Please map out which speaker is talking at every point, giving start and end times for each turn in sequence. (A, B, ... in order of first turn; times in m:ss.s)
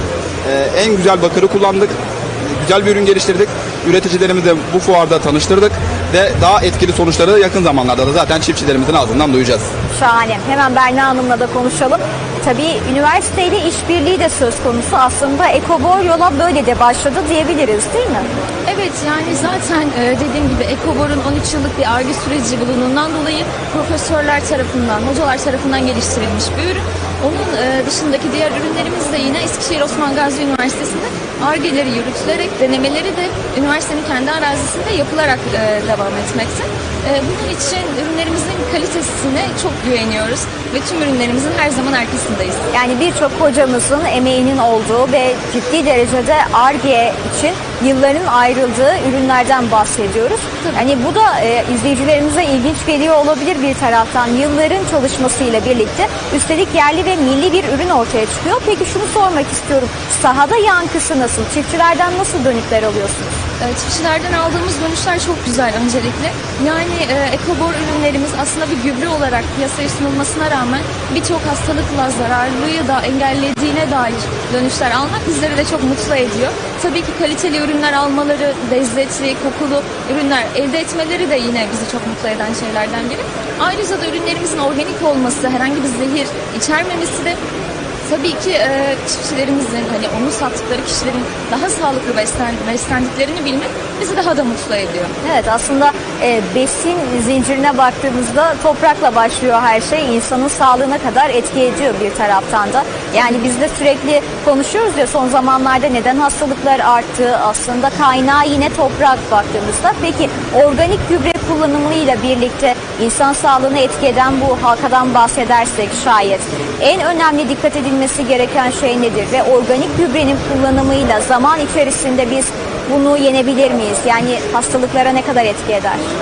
0:00.4-0:09.7 A
0:09.9-0:18.3 B
0:18.6-0:42.7 C
0:42.7-1:03.4 B
1:03.6-1:27.4 C
1:28.0-1:35.1 C
1:35.2-2:06.0 B